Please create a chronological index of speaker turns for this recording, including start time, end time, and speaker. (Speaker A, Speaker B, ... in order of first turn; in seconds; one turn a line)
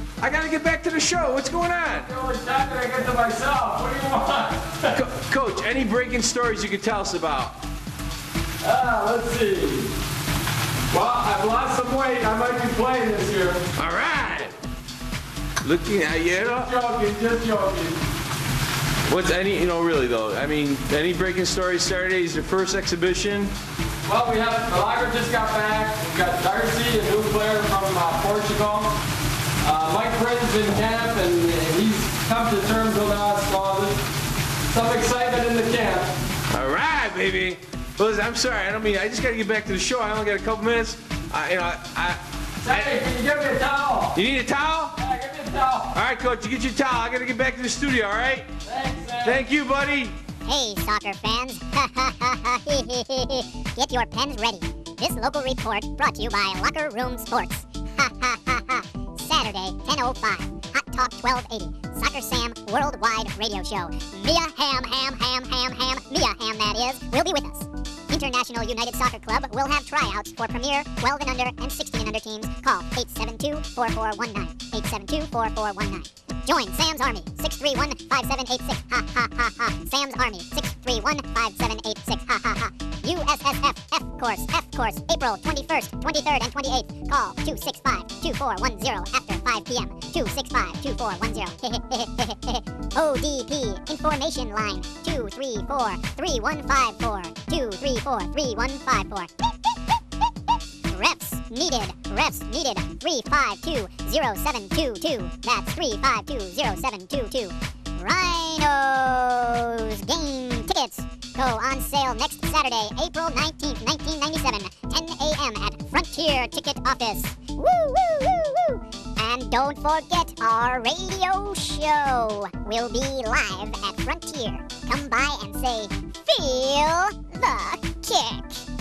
Speaker A: 0.2-2.1
Speaker B: 2.0-4.8
Speaker A: 4.9-7.6
Speaker B: 8.6-9.9
Speaker B: 10.9-13.6
Speaker A: 13.8-14.5
Speaker A: 15.6-16.7
Speaker B: 16.6-18.0
Speaker A: 19.1-23.5
Speaker B: 24.1-28.9
Speaker B: 29.6-33.9
Speaker B: 34.7-36.1
Speaker A: 36.5-43.0
Speaker B: 42.6-44.2
Speaker A: 44.1-44.9
Speaker B: 45.0-45.9
Speaker A: 45.9-48.5
Speaker B: 48.6-49.4
Speaker A: 49.2-50.1
Speaker C: 50.5-99.3
Speaker C: 100.9-128.6